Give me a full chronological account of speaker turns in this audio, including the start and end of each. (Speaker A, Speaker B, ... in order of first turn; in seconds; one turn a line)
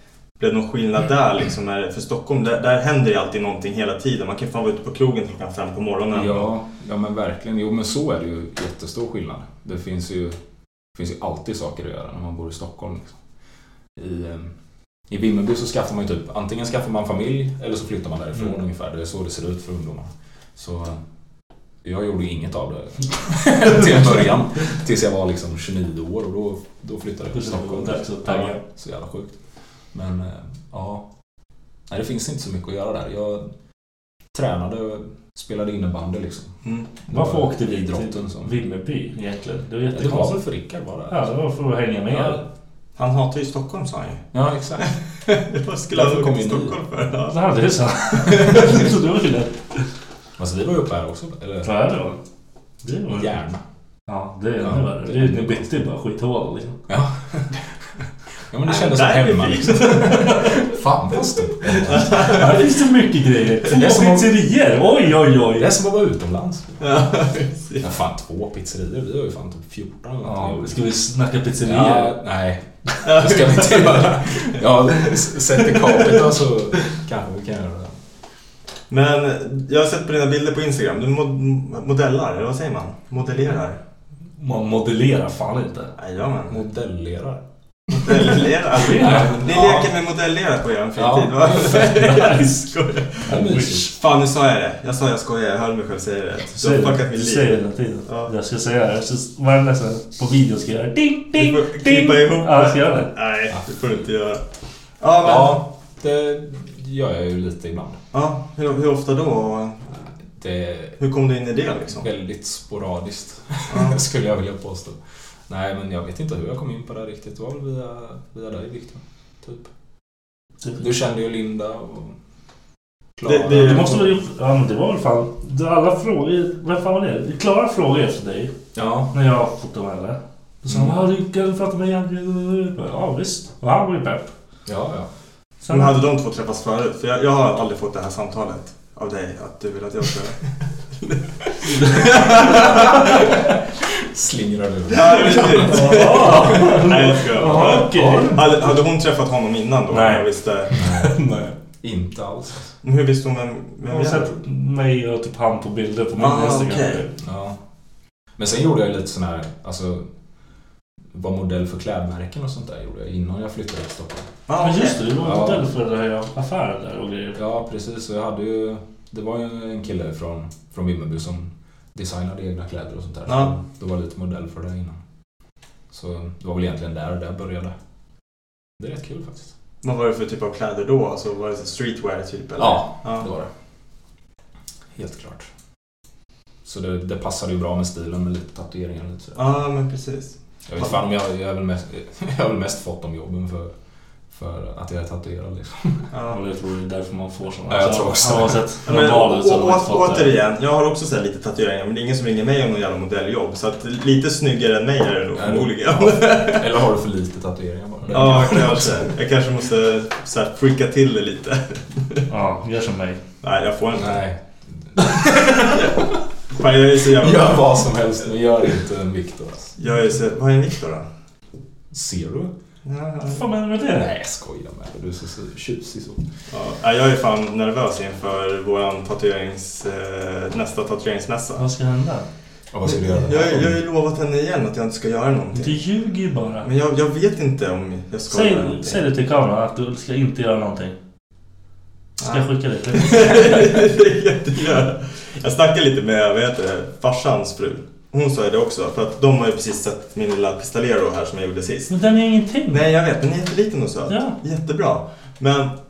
Speaker A: 0.4-6.5
Speaker B: 6.1-10.3
Speaker B: 10.9-13.1
Speaker B: 13.9-14.5
Speaker B: 15.1-21.0
Speaker B: 21.8-29.4
Speaker C: 27.3-28.6
Speaker B: 29.9-31.1
Speaker B: 31.9-33.5
Speaker B: 34.3-36.5
Speaker A: 36.6-36.9
Speaker B: 37.1-38.5
Speaker C: 37.1-40.5
Speaker B: 39.9-41.3
Speaker C: 41.1-42.4
Speaker B: 42.1-42.4
Speaker A: 43.0-44.2
Speaker B: 44.3-45.0
Speaker A: 44.8-47.4
Speaker B: 45.9-46.8
Speaker C: 47.3-49.8
Speaker A: 48.3-48.8
Speaker B: 50.4-51.7
Speaker C: 51.6-52.2
Speaker C: 52.8-53.3
Speaker B: 53.1-53.6
Speaker C: 54.1-56.8
Speaker B: 54.6-55.7
Speaker B: 56.9-57.6
Speaker B: 58.5-62.5
Speaker A: 58.6-60.6
Speaker A: 61.7-62.6
Speaker C: 61.9-65.7
Speaker B: 63.7-64.3
Speaker B: 65.5-66.8
Speaker A: 66.8-67.9
Speaker B: 67.8-70.8
Speaker C: 70.2-72.2
Speaker B: 71.6-78.0
Speaker A: 73.0-75.1
Speaker A: 78.9-83.8
Speaker C: 84.4-85.9
Speaker A: 86.0-86.6
Speaker B: 86.5-87.4
Speaker A: 87.9-93.2
Speaker B: 88.1-88.3
Speaker C: 88.8-89.5
Speaker B: 89.0-89.9
Speaker B: 91.0-92.1
Speaker C: 91.7-93.9
Speaker B: 93.3-93.9
Speaker A: 93.9-98.3
Speaker C: 96.5-103.1
Speaker A: 101.3-104.4
Speaker A: 105.0-105.6
Speaker B: 105.2-108.0
Speaker A: 108.1-110.0
Speaker B: 110.3-111.0
Speaker A: 111.0-112.0
Speaker B: 112.0-119.7
Speaker A: 113.7-114.0
Speaker B: 120.8-122.2
Speaker B: 123.2-124.0
Speaker A: 123.2-124.1
Speaker C: 123.5-128.5
Speaker B: 128.7-129.1
Speaker C: 129.1-134.3
Speaker B: 130.7-131.0
Speaker B: 134.7-135.1
Speaker C: 135.6-136.0
Speaker A: 135.7-140.4
Speaker A: 141.8-142.9
Speaker B: 142.2-146.8
Speaker A: 144.9-150.7
Speaker C: 145.3-148.4
Speaker B: 147.5-148.4
Speaker C: 149.9-151.5
Speaker B: 150.7-151.2
Speaker B: 151.8-152.7
Speaker A: 152.8-154.3
Speaker C: 153.9-157.1
Speaker A: 156.2-157.0
Speaker B: 157.2-157.6
Speaker B: 158.4-160.1
Speaker B: 161.1-164.3
Speaker A: 164.5-165.0
Speaker C: 164.6-167.4
Speaker B: 165.2-165.7
Speaker B: 167.3-175.0
Speaker A: 173.2-173.5
Speaker B: 175.9-177.7
Speaker B: 178.8-179.5
Speaker A: 179.8-183.3
Speaker B: 182.6-183.5
Speaker B: 184.9-185.5
Speaker B: 186.6-189.5
Speaker A: 189.3-190.9
Speaker B: 190.7-193.7
Speaker B: 194.3-196.1
Speaker A: 196.1-196.4
Speaker C: 196.3-200.3
Speaker B: 197.7-198.7
Speaker A: 198.8-206.7
Speaker B: 205.3-209.1
Speaker C: 208.0-209.1
Speaker A: 208.1-212.2
Speaker C: 212.3-213.2
Speaker A: 213.4-214.2
Speaker B: 213.9-215.8
Speaker A: 216.5-217.7
Speaker B: 217.1-219.8
Speaker A: 219.8-221.1
Speaker B: 221.9-222.5
Speaker A: 222.8-223.4
Speaker C: 223.3-224.1
Speaker B: 223.9-226.3
Speaker A: 226.5-231.6
Speaker C: 231.6-232.2
Speaker B: 232.7-233.8
Speaker A: 232.8-235.8
Speaker C: 235.5-236.7
Speaker A: 236.6-239.1
Speaker C: 238.3-240.9
Speaker A: 242.2-251.9
Speaker C: 242.2-243.5
Speaker C: 251.9-252.8
Speaker A: 252.7-255.7
Speaker C: 254.1-254.3